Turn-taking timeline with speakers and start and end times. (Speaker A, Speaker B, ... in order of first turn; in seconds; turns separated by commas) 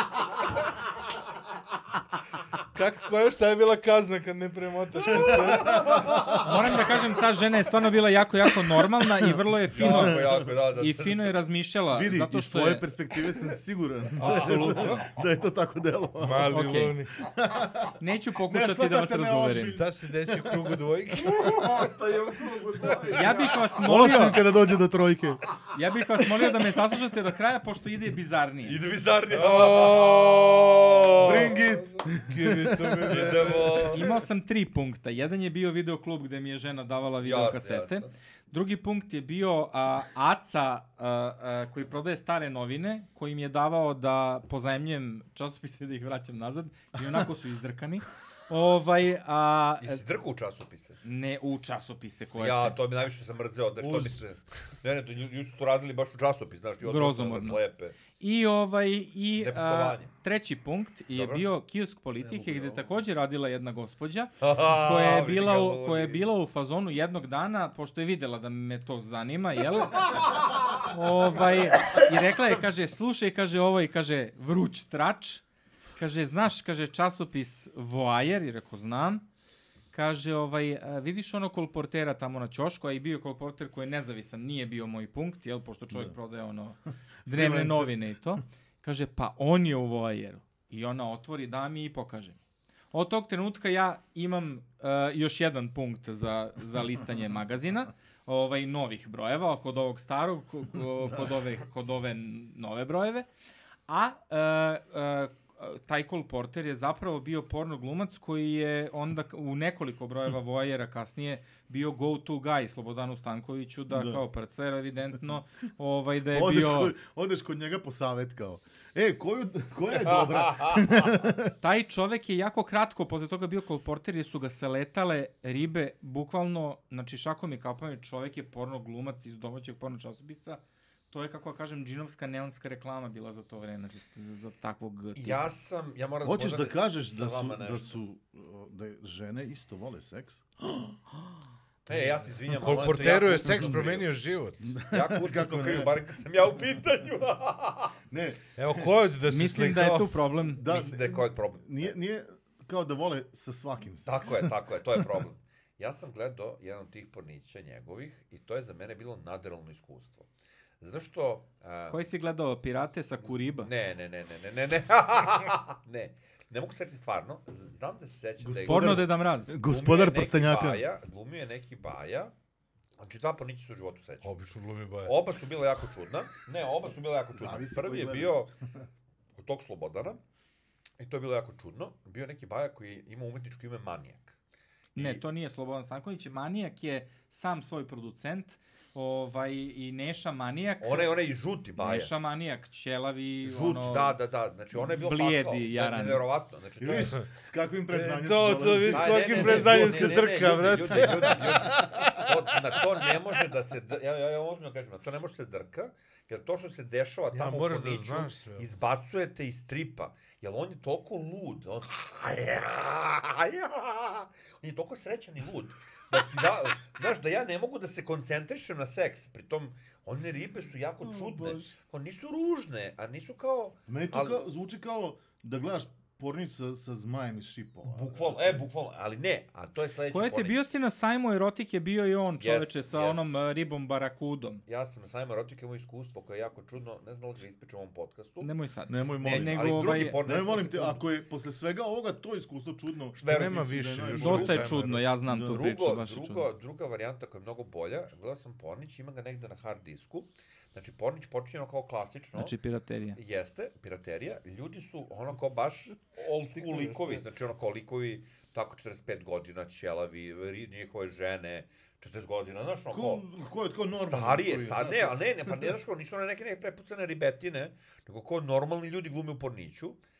Speaker A: 2.7-6.4, Speaker B: 5.0-6.5, Speaker C: 5.5-6.6, Speaker D: 6.4-12.8, Speaker C: 9.0-10.5, Speaker B: 9.7-11.3, Speaker C: 11.9-16.6, Speaker B: 14.2-15.0, Speaker A: 14.2-15.0, Speaker A: 16.2-17.2, Speaker D: 16.5-16.9, Speaker C: 17.2-20.8, Speaker D: 18.0-19.8, Speaker A: 19.7-21.4, Speaker B: 21.2-23.8, Speaker D: 23.1-24.4, Speaker C: 23.8-25.4, Speaker D: 25.7-28.8, Speaker B: 28.6-32.1, Speaker A: 29.3-31.5, Speaker C: 31.2-34.0, Speaker A: 32.2-33.8, Speaker B: 33.1-34.1, Speaker D: 33.9-50.0, Speaker B: 37.2-38.1, Speaker B: 49.8-51.0, Speaker D: 51.0-52.8, Speaker B: 52.4-58.0, Speaker A: 53.8-54.2, Speaker D: 56.8-57.6, Speaker D: 58.2-70.1, Speaker B: 59.4-60.1, Speaker B: 61.1-61.5, Speaker C: 62.2-63.0, Speaker B: 64.4-66.2, Speaker D: 70.8-75.4, Speaker D: 76.0-79.2, Speaker D: 79.9-92.4, Speaker C: 87.3-88.0, Speaker D: 92.9-103.3, Speaker D: 103.9-117.0, Speaker C: 113.9-114.2, Speaker C: 116.3-121.5, Speaker B: 119.9-121.1, Speaker D: 121.6-135.5, Speaker B: 135.2-137.9, Speaker C: 136.2-141.0, Speaker B: 141.8-144.1, Speaker C: 141.9-143.8, Speaker A: 142.5-144.6, Speaker C: 144.6-145.9, Speaker B: 144.9-148.0, Speaker C: 148.1-148.9, Speaker A: 148.6-150.2, Speaker D: 149.2-150.6, Speaker C: 150.5-154.5, Speaker B: 150.6-151.9, Speaker B: 154.0-160.3, Speaker B: 160.8-162.0, Speaker D: 161.9-163.7, Speaker B: 163.6-169.1, Speaker C: 168.4-170.8, Speaker D: 168.6-169.5, Speaker B: 169.6-172.3, Speaker B: 173.0-174.4, Speaker A: 174.2-175.1, Speaker B: 175.0-178.5, Speaker C: 177.3-178.8, Speaker B: 179.4-180.2, Speaker B: 181.0-184.4, Speaker B: 184.9-185.2, Speaker D: 184.9-191.1, Speaker B: 190.8-192.1, Speaker D: 191.8-194.2, Speaker B: 193.4-197.3, Speaker D: 194.8-196.2, Speaker C: 196.8-202.1, Speaker A: 197.9-202.1, Speaker B: 198.8-224.4, Speaker A: 207.3-208.7, Speaker D: 221.0-221.7, Speaker C: 223.9-228.6, Speaker B: 227.9-230.6, Speaker D: 230.1-234.6, Speaker B: 232.4-233.3, Speaker B: 234.7-238.5, Speaker D: 238.4-240.2, Speaker C: 238.9-245.6, Speaker B: 239.2-241.0, Speaker B: 243.2-244.5, Speaker A: 243.2-245.1, Speaker D: 244.2-246.4, Speaker B: 245.4-252.5, Speaker D: 252.3-253.2, Speaker B: 253.2-263.2, Speaker A: 256.5-257.2, Speaker C: 262.9-265.7, Speaker B: 263.9-270.0